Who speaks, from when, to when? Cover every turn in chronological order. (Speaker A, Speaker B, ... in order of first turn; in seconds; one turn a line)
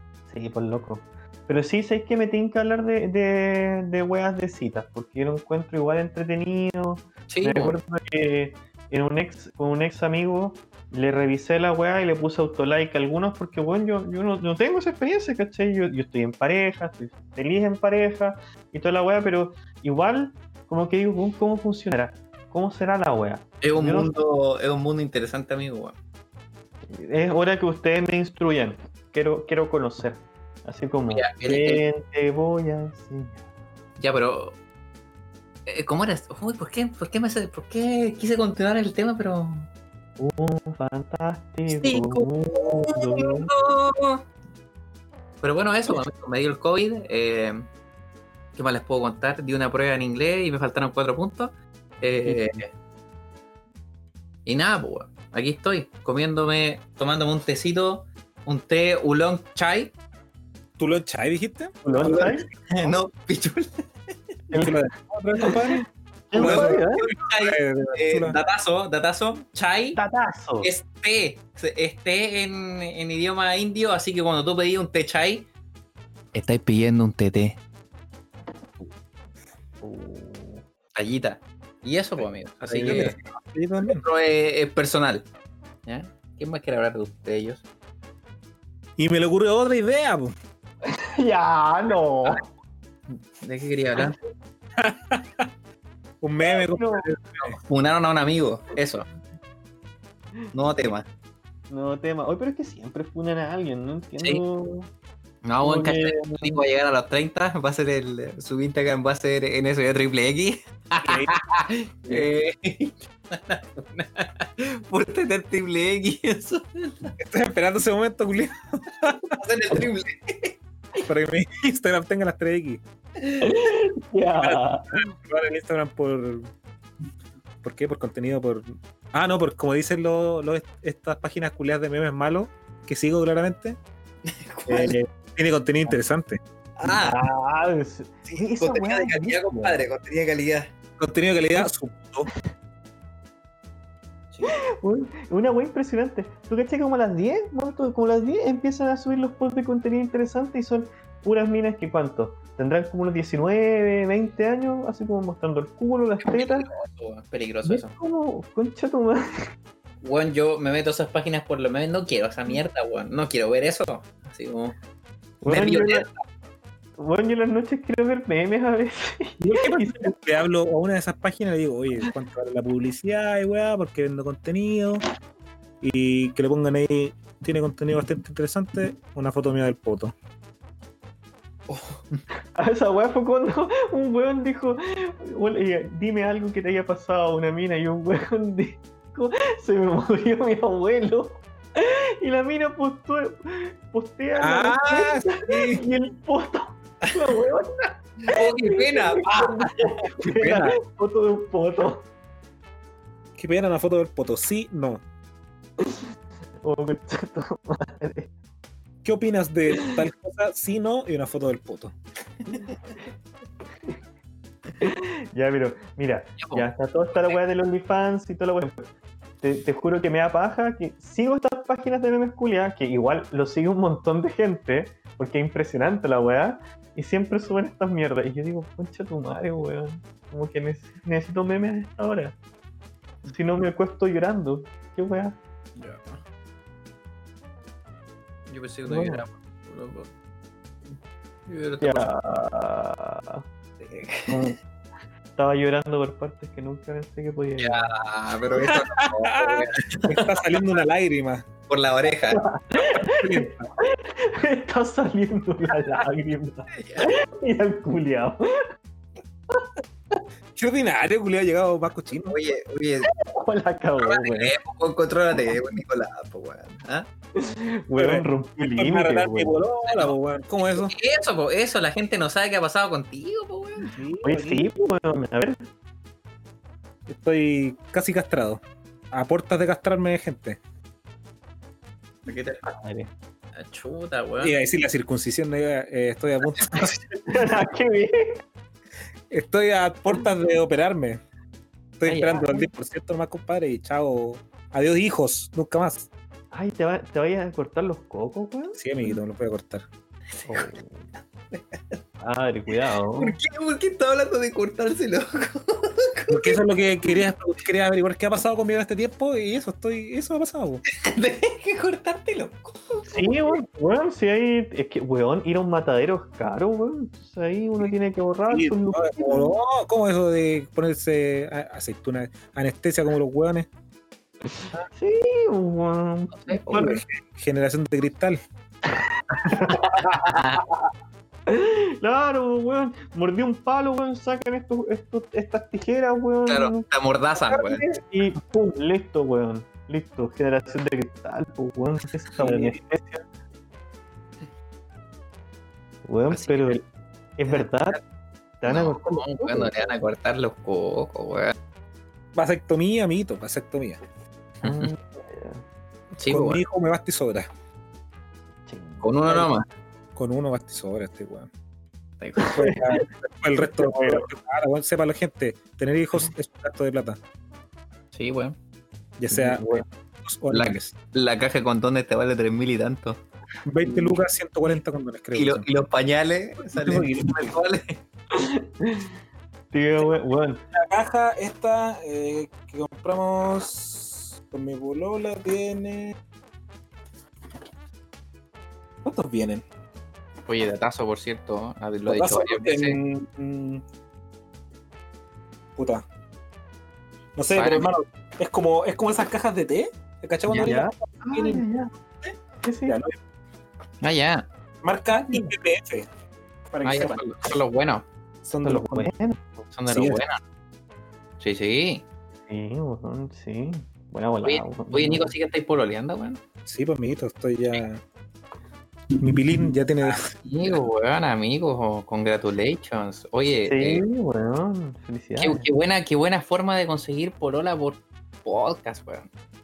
Speaker A: 0.3-24.1
Speaker B: 7.3-7.8
Speaker B: 23.6-26.0
Speaker A: 26.9-33.4
Speaker B: 31.1-31.8
Speaker B: 34.0-34.6
Speaker B: 35.7-39.7
Speaker A: 40.2-43.5
Speaker B: 41.7-44.2
Speaker B: 45.4-47.7
Speaker B: 48.6-52.7
Speaker A: 52.2-52.6
Speaker B: 54.5-59.9
Speaker C: 60.8-61.8
Speaker A: 61.8-62.5
Speaker B: 62.0-63.9
Speaker A: 64.5-64.8
Speaker C: 64.5-68.4
Speaker A: 65.4-67.1
Speaker B: 66.3-70.0
Speaker A: 70.0-70.7
Speaker B: 70.6-75.5
Speaker B: 76.3-77.6
Speaker A: 79.8-80.6
Speaker B: 80.9-83.2
Speaker A: 82.7-83.1
Speaker C: 82.7-84.0
Speaker B: 83.8-85.3
Speaker B: 85.9-87.7
Speaker C: 89.0-90.3
Speaker A: 90.9-92.5
Speaker B: 93.1-94.2
Speaker C: 94.8-95.5
Speaker C: 96.2-97.6
Speaker A: 96.5-97.1
Speaker B: 97.6-99.0
Speaker B: 100.5-101.1
Speaker A: 101.7-104.9
Speaker B: 105.4-117.2
Speaker A: 105.6-106.6
Speaker C: 111.0-111.3
Speaker C: 117.2-119.4
Speaker B: 119.2-120.6
Speaker C: 121.0-122.8
Speaker A: 123.4-125.1
Speaker C: 124.4-126.5
Speaker C: 127.6-133.8
Speaker B: 134.3-134.9
Speaker A: 134.7-135.0
Speaker C: 134.7-136.4
Speaker B: 136.8-137.2
Speaker A: 136.9-139.9
Speaker B: 138.3-140.7
Speaker C: 141.0-142.3
Speaker A: 144.4-156.7
Speaker B: 156.2-157.9
Speaker A: 157.6-159.5
Speaker B: 160.0-164.8
Speaker A: 165.4-166.1
Speaker B: 165.5-166.1
Speaker A: 167.0-170.2
Speaker C: 169.4-175.0
Speaker C: 175.8-180.1
Speaker B: 181.7-182.2
Speaker A: 182.6-202.1
Speaker C: 194.4-195.8
Speaker B: 198.3-200.1
Speaker C: 200.3-200.8
Speaker C: 203.4-205.0
Speaker A: 205.8-206.1
Speaker A: 206.6-208.3
Speaker C: 209.0-211.9
Speaker A: 214.8-218.9
Speaker B: 216.4-217.4
Speaker A: 219.4-232.4
Speaker A: 233.3-235.4
Speaker B: 235.8-236.2
Speaker B: 238.5-240.1
Speaker A: 238.8-239.2
Speaker B: 241.5-242.1
Speaker A: 241.8-243.4
Speaker B: 243.8-244.6
Speaker A: 244.3-244.6
Speaker A: 245.4-247.9
Speaker B: 247.6-250.6
Speaker C: 248.5-251.5
Speaker B: 251.7-252.4
Speaker A: 252.3-258.7
Speaker C: 252.8-253.7
Speaker B: 256.7-257.1
Speaker C: 260.6-262.4
Speaker B: 262.2-263.1
Speaker A: 263.0-264.6
Speaker B: 264.0-267.1
Speaker A: 267.4-269.6
Speaker C: 267.9-270.9
Speaker B: 269.9-270.1
Speaker B: 270.7-273.9
Speaker C: 273.9-274.7
Speaker A: 274.2-275.6
Speaker C: 277.1-280.6
Speaker B: 282.3-282.6
Speaker A: 282.6-283.1
Speaker B: 283.6-284.6
Speaker C: 284.4-287.0
Speaker A: 287.1-288.4
Speaker C: 289.3-291.2
Speaker C: 292.0-296.1
Speaker B: 292.1-292.5
Speaker A: 296.5-299.1
Speaker C: 298.8-299.9
Speaker B: 300.4-300.7
Speaker A: 300.5-301.1
Speaker B: 301.5-302.0
Speaker A: 302.2-303.4
Speaker B: 303.2-307.2
Speaker C: 306.3-310.8
Speaker B: 310.9-313.5
Speaker A: 313.1-319.6
Speaker C: 318.5-323.7
Speaker A: 324.9-327.0
Speaker B: 326.5-327.0
Speaker C: 326.7-328.4
Speaker A: 328.9-330.4
Speaker B: 329.4-330.6
Speaker A: 331.5-343.2
Speaker B: 336.5-337.8
Speaker C: 342.4-342.8
Speaker A: 346.1-346.8
Speaker B: 346.3-346.8
Speaker A: 347.4-348.0
Speaker B: 347.5-348.0
Speaker A: 348.6-350.0
Speaker B: 348.7-351.6
Speaker C: 352.4-354.0
Speaker A: 354.6-355.6
Speaker B: 354.6-354.9
Speaker B: 356.2-356.6
Speaker C: 356.3-357.5
Speaker A: 358.7-359.5
Speaker B: 359.0-359.6
Speaker C: 360.2-361.5
Speaker B: 362.2-362.6
Speaker A: 362.4-363.1
Speaker C: 362.5-367.2
Speaker A: 363.6-364.3
Speaker B: 368.1-368.6
Speaker C: 369.2-370.9
Speaker A: 369.3-369.9
Speaker B: 370.5-373.2
Speaker C: 373.7-375.7
Speaker B: 375.4-378.0
Speaker C: 376.6-377.6
Speaker A: 378.3-379.1
Speaker A: 379.7-380.6
Speaker C: 380.7-386.1
Speaker C: 389.0-389.6
Speaker B: 390.5-393.0
Speaker C: 392.1-393.8
Speaker C: 395.8-396.1
Speaker C: 397.4-401.7
Speaker B: 397.5-397.9
Speaker A: 400.6-401.9
Speaker A: 402.6-403.0
Speaker C: 402.9-403.2
Speaker B: 404.0-404.5
Speaker C: 404.8-406.1
Speaker A: 405.1-405.5
Speaker C: 406.7-407.2
Speaker B: 406.8-408.1
Speaker C: 408.4-409.1
Speaker A: 408.6-409.6
Speaker B: 409.7-410.4
Speaker C: 409.9-410.2
Speaker B: 411.4-412.0
Speaker A: 412.5-415.3
Speaker B: 414.4-416.4
Speaker C: 416.6-418.0
Speaker C: 419.2-420.8
Speaker B: 420.0-424.0
Speaker A: 423.7-425.7
Speaker B: 425.4-429.3